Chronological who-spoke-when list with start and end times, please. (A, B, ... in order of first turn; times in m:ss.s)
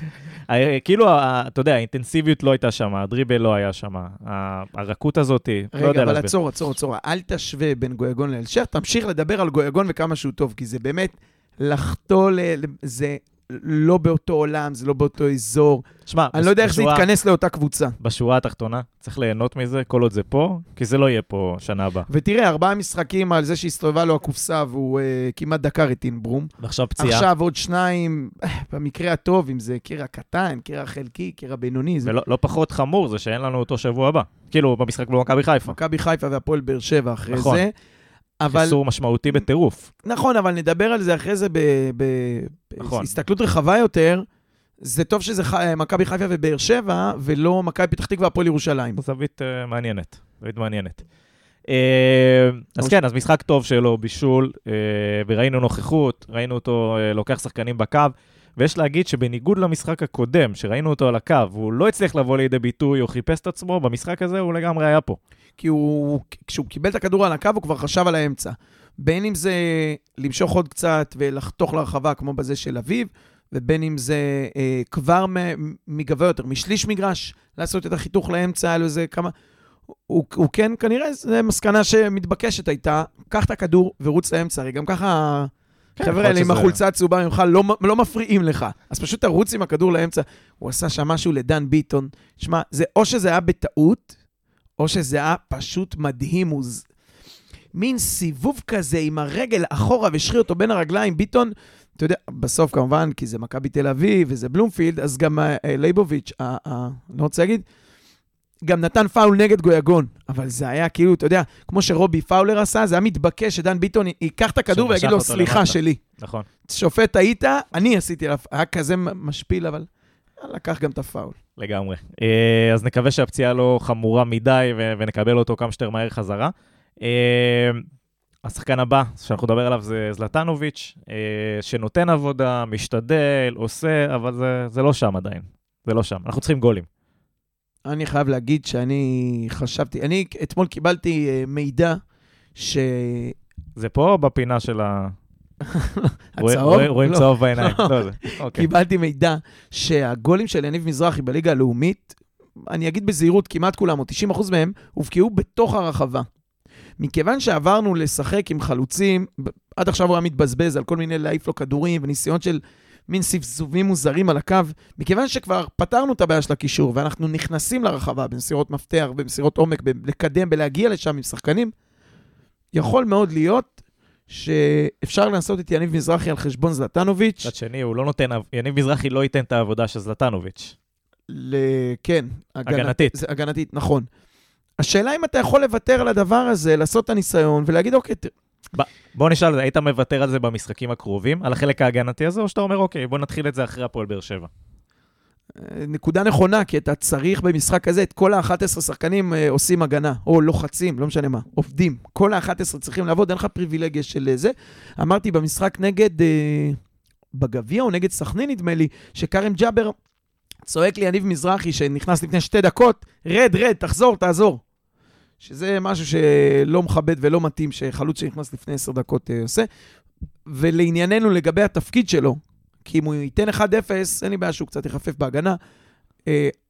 0:00.5-0:06.3 A
0:05.7-0:18.0 B
0:16.1-0:17.0 A
0:18.0-0:22.1 A
0:22.1-0:32.1 B
0:26.6-0:27.3 A
0:32.0-0:35.8 A
0:35.6-0:37.7 B
0:37.3-0:37.6 A
0:38.4-0:38.8 B
0:38.5-0:39.9 A
0:40.0-0:44.2 B
0:42.8-0:43.1 A
0:44.8-0:49.0 B
0:49.0-0:51.0 A
0:51.7-1:05.2 A
1:05.6-1:19.3 B
1:20.1-1:34.1 B
1:26.0-1:26.8 A
1:34.8-1:36.8 B
1:37.7-1:47.6 B
1:48.6-1:56.0 B
1:54.7-1:56.5 A
1:56.7-1:59.9 B
2:00.4-2:01.3 B
2:01.6-2:07.8 A
2:08.4-2:16.9 A
2:17.8-2:22.0 B
2:22.6-2:23.4 B
2:23.8-2:25.1 A
2:25.6-2:36.3 B
2:26.4-2:28.7 A
2:37.0-2:51.7 B
2:52.7-2:53.7 B
2:54.3-2:57.5 B
2:57.4-3:00.7 A
3:01.3-3:04.1 B
3:02.7-3:03.2 A
3:04.8-3:08.3 B
3:08.7-3:14.5 A
3:15.6-3:26.8 B
3:27.3-3:29.9 B
3:30.6-3:34.6 B
3:35.4-3:39.7 B
3:40.5-3:45.6 B
3:46.2-3:46.5 B